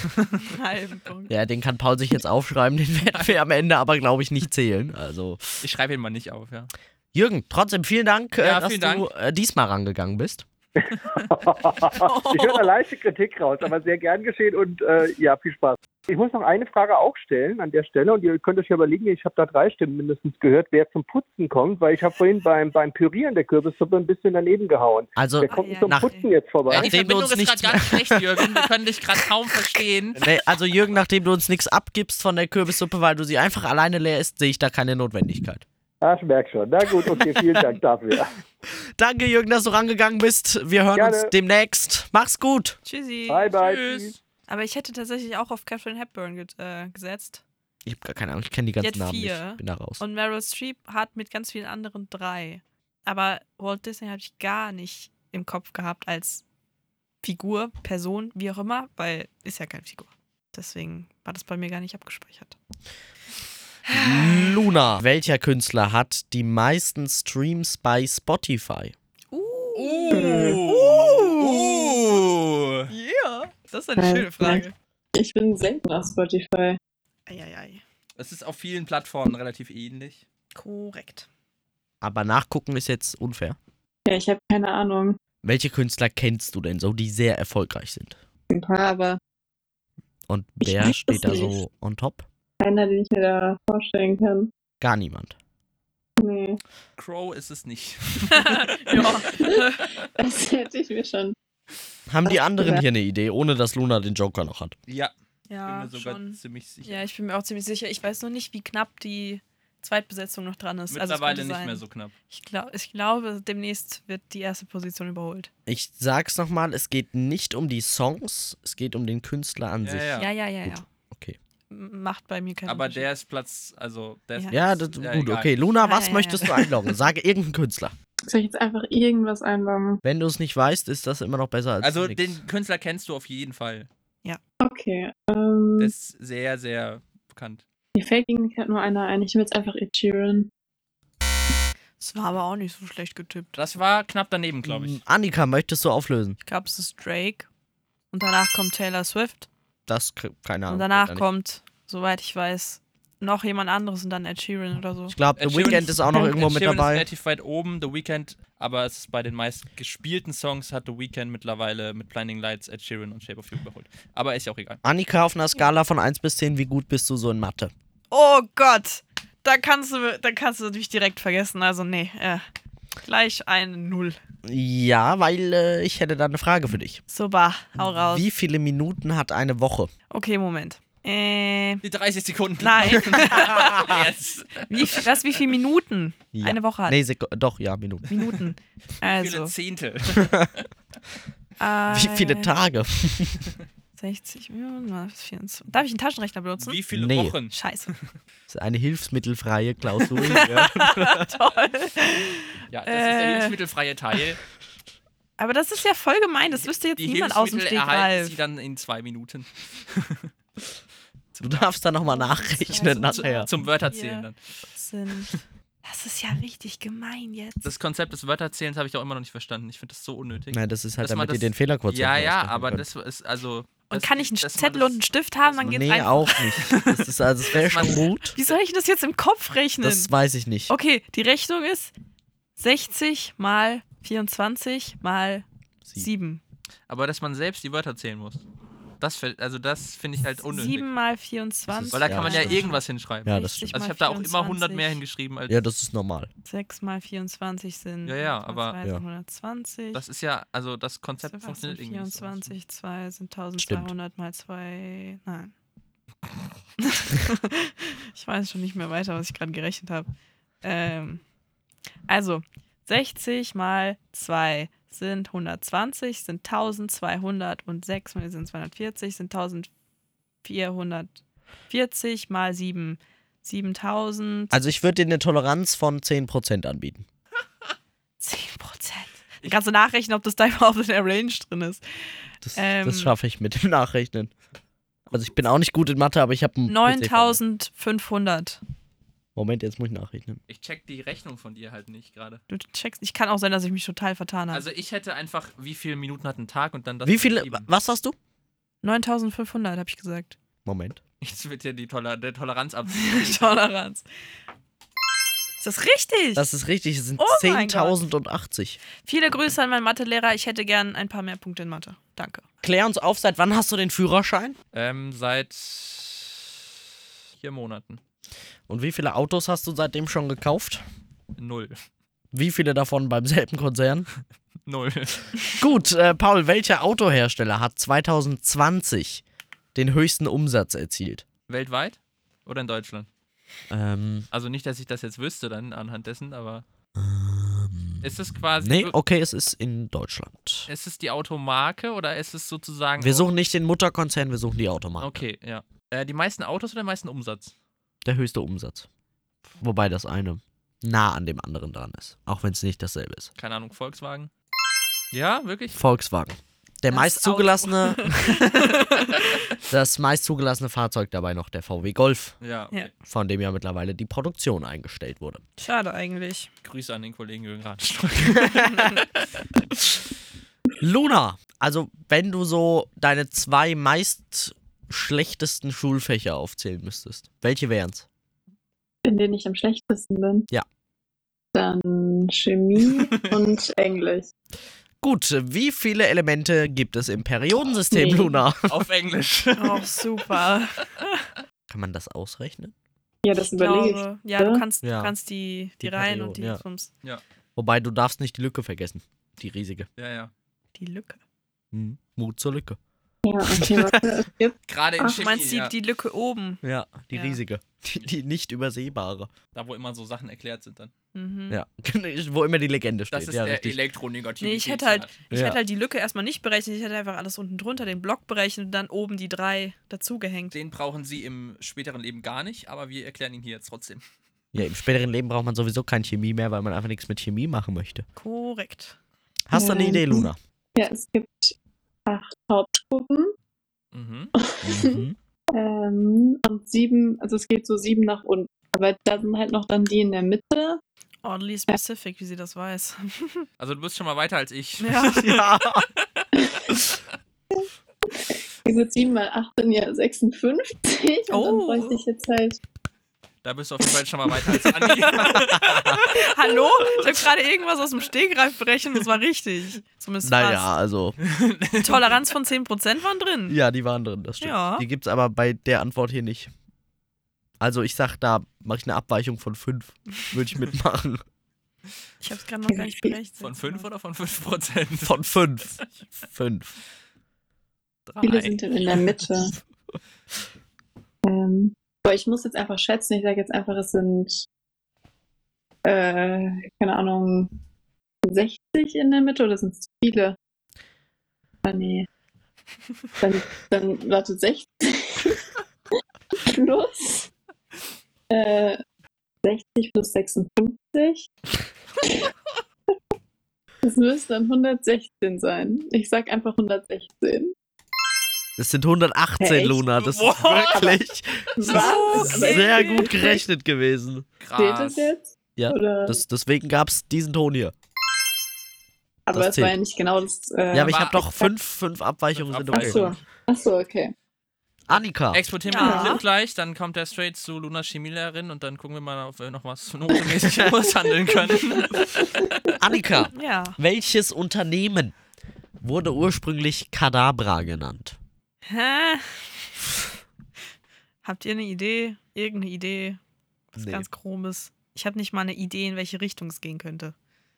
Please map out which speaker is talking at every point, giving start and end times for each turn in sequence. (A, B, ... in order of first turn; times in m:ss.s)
0:00.4-0:01.3 A
0:01.3-0:05.6 B
0:03.1-0:03.4 C
0:05.6-0:06.7 C
0:07.1-0:10.4 B
0:08.4-0:09.1 C
0:11.1-0:26.9 D
0:12.0-0:12.7 A
0:25.2-0:26.1 B
0:25.5-0:26.3 A
0:26.7-0:28.5 B
0:26.7-0:30.3 C
0:30.2-0:35.6 B
0:36.0-0:38.3 D
0:38.7-0:42.8 B
0:41.0-0:41.3 D
0:42.8-0:43.5 A
0:43.3-0:44.1 D
0:43.6-0:44.2 C
0:44.5-0:47.4 A
0:47.8-0:50.0 B
0:48.8-0:56.4 A
0:57.2-1:02.6 A
1:03.9-1:04.6 A
1:03.9-1:08.9 B
1:09.3-1:12.2 A
1:09.8-1:12.9 C
1:10.1-1:10.6 E
1:12.9-1:14.8 A
1:14.0-1:16.8 E
1:17.3-1:17.8 A
1:18.2-1:20.2 C
1:20.6-1:21.3 A
1:22.0-1:23.6 B
1:24.1-1:25.2 E
1:25.4-1:28.2 B
1:28.5-1:29.2 E
1:30.3-1:32.3 B
1:30.6-1:31.6 E
1:32.6-1:34.5 E
1:34.8-1:35.4 B
1:36.2-1:36.6 E
1:37.0-1:39.1 C
1:38.3-1:39.9 A
1:39.3-1:41.4 E
1:42.1-1:44.8 B
1:42.3-1:42.8 E
1:44.9-1:45.1 C
1:45.5-1:55.5 A
1:45.7-1:47.0 C
1:50.9-1:52.1 C
1:55.7-2:01.4 B
1:59.8-2:00.3 C
2:00.2-2:00.9 A
2:01.7-2:03.1 A
2:02.7-2:05.5 C
2:04.5-2:07.9 B
2:05.8-2:06.6 A
2:08.3-2:10.0 E
2:10.0-2:12.4 B
2:11.8-2:13.9 C
2:14.6-2:15.9 E
2:15.8-2:17.6 C
2:18.0-2:20.5 E
2:22.0-2:23.5 A
2:23.6-2:25.0 C
2:24.6-2:26.4 B
2:26.5-2:27.5 A
2:28.1-2:29.5 A
2:29.9-2:31.2 B
2:30.7-2:35.8 A
2:35.1-2:37.1 B
2:35.4-2:44.8 C
2:44.8-2:47.7 B
2:48.1-2:52.4 A
2:53.0-2:54.2 A
2:54.4-2:57.0 B
2:57.1-2:58.3 A
2:57.9-2:59.9 B
3:00.1-3:01.8 A
3:01.8-3:05.1 C
3:02.6-3:04.0 A
3:03.6-3:04.0 B
3:04.7-3:07.0 A
3:06.3-3:08.3 B
3:08.1-3:09.5 A
3:09.2-3:10.6 C
3:10.2-3:10.5 B
3:11.6-3:12.5 A
3:11.9-3:13.5 B
3:14.0-3:16.8 A
3:16.6-3:18.0 C
3:16.9-3:17.4 B
3:17.5-3:17.9 A
3:18.5-3:21.3 B
3:20.3-3:23.6 A
3:22.7-3:24.4 C
3:25.4-3:28.4 A
3:27.0-3:30.3 C
3:31.4-3:33.5 B
3:32.1-3:37.7 A
3:33.4-3:34.4 C
3:37.6-3:47.0 C
3:40.5-3:42.8 B
3:43.9-3:46.4 A
3:45.6-3:48.4 B
3:47.5-3:48.1 C
3:48.3-3:50.1 A
3:49.8-3:50.7 B
3:50.7-3:51.9 A
3:52.6-3:56.4 A
3:56.9-3:58.4 C
3:59.0-4:00.8 C
4:00.4-4:05.0 A
4:01.7-4:02.7 B
4:01.9-4:05.6 C
4:03.2-4:03.7 B
4:05.5-4:06.3 B
4:06.4-4:10.0 A
4:08.1-4:08.8 C
4:09.9-4:12.5 C
4:11.2-4:15.5 A
4:13.6-4:13.9 B
4:16.8-4:20.1 A
4:20.6-4:21.2 A
4:22.1-4:29.7 A
4:30.4-4:34.6 A
4:34.5-4:37.1 B
4:38.2-4:43.2 A
4:42.4-4:44.3 B
4:45.1-4:47.4 B
4:46.7-4:48.6 A
4:49.4-4:50.4 B
4:50.5-4:52.4 C
4:52.5-4:54.6 A
4:54.5-4:57.7 C
4:57.0-4:58.2 B
4:58.8-5:00.4 A
5:00.6-5:01.0 B
5:01.2-5:03.5 C
5:02.9-5:04.0 A
5:05.6-5:06.5 A
5:06.4-5:08.8 B
5:07.2-5:08.0 A
5:09.0-5:12.4 A
5:12.6-5:14.6 B
5:14.7-5:16.5 C
5:17.4-5:18.0 C
5:18.7-5:20.8 B
5:21.4-5:21.8 C
5:22.3-5:24.1 B
5:24.7-5:25.5 C
5:25.6-5:29.2 B
5:29.8-5:31.2 B
5:31.5-5:33.1 C
5:33.7-5:34.3 B
5:34.3-5:36.6 C
5:37.0-5:38.1 B
5:38.0-5:39.0 C
5:38.6-5:40.7 B
5:40.7-5:43.3 C
5:43.0-5:45.2 B
5:45.0-5:47.5 C
5:48.0-5:48.9 B
5:49.6-5:53.3 B
5:53.4-5:54.3 C
5:55.1-5:55.8 C
5:55.7-5:58.6 B
5:56.9-5:59.3 A
5:59.7-6:02.4 B
6:02.4-6:02.9 C
6:03.1-6:05.4 B
6:05.6-6:06.5 A
6:06.6-6:09.3 C
6:08.4-6:08.8 B
6:09.7-6:10.0 B
6:10.8-6:18.1 B
6:19.0-6:20.5 E
6:21.5-6:24.3 E
6:23.0-6:23.3 C
6:25.0-6:28.8 B
6:27.9-6:28.4 E
6:28.7-6:30.2 C
6:29.6-6:31.3 A
6:31.7-6:32.7 B
6:33.2-6:34.6 E
6:33.4-6:36.9 A
6:34.8-6:35.1 B
6:35.8-6:36.6 B
6:37.6-6:39.9 B
6:40.0-6:40.3 C
6:40.8-6:41.2 A
6:41.7-6:42.8 B
6:43.2-6:45.2 E
6:43.5-6:44.2 B
6:44.7-6:45.7 C
6:45.1-6:47.4 A
6:46.6-6:49.3 B
6:49.5-6:50.9 C
6:51.1-6:51.6 A
6:51.5-6:53.8 B
6:53.1-6:55.2 C
6:54.4-7:00.6 A
6:55.3-6:55.6 B
7:00.5-7:04.0 C
7:04.5-7:08.0 B
7:08.2-7:09.0 A
7:09.5-7:10.4 B
7:09.5-7:11.6 E
7:12.1-7:13.3 E
7:13.9-7:14.3 C
7:14.4-7:20.8 E
7:14.6-7:15.2 B
7:21.2-7:23.5 A
7:23.6-7:26.3 C
7:24.8-7:25.3 A
7:25.1-7:25.9 B
7:26.4-7:26.7 E
7:28.1-7:32.6 E
7:31.3-7:32.0 A
7:33.4-7:36.0 C
7:34.7-7:40.7 A
7:35.2-7:36.1 B
7:40.2-7:41.2 B
7:41.2-7:42.1 C
7:41.8-7:43.6 A
7:43.5-7:46.5 B
7:44.4-7:44.9 A
7:47.6-7:51.2 B
7:52.2-7:53.9 A
7:52.7-7:53.2 E
7:53.4-7:55.8 C
7:55.0-7:56.8 B
7:58.1-7:58.6 C
7:58.2-7:59.6 E
8:01.2-8:04.5 E
8:05.8-8:07.5 E
8:08.2-8:10.4 E
8:11.6-8:12.1 E
8:13.2-8:15.5 E
8:16.4-8:17.3 E
8:18.3-8:18.8 E
8:19.4-8:21.3 E
8:23.8-8:27.5 E
8:28.6-8:34.3 B
8:29.4-8:29.8 E
8:30.0-8:31.0 C
8:31.6-8:33.4 E
8:31.7-8:33.4 A
8:34.4-8:35.1 C
8:34.6-8:36.2 E
8:35.6-8:37.7 B
8:39.3-8:41.5 E
8:39.3-8:39.8 B
8:40.7-8:43.1 B
8:40.8-8:41.2 C
8:42.3-8:43.2 C
8:42.7-8:44.1 E
8:44.9-8:45.4 B
8:45.3-8:52.8 C
8:45.7-8:46.2 A
8:45.8-8:46.2 E
8:52.8-8:55.2 B
8:53.3-8:53.8 A
8:55.8-8:58.2 B
8:58.7-8:59.7 A
9:01.2-9:03.2 A
9:03.7-9:07.1 A
9:03.8-9:04.1 B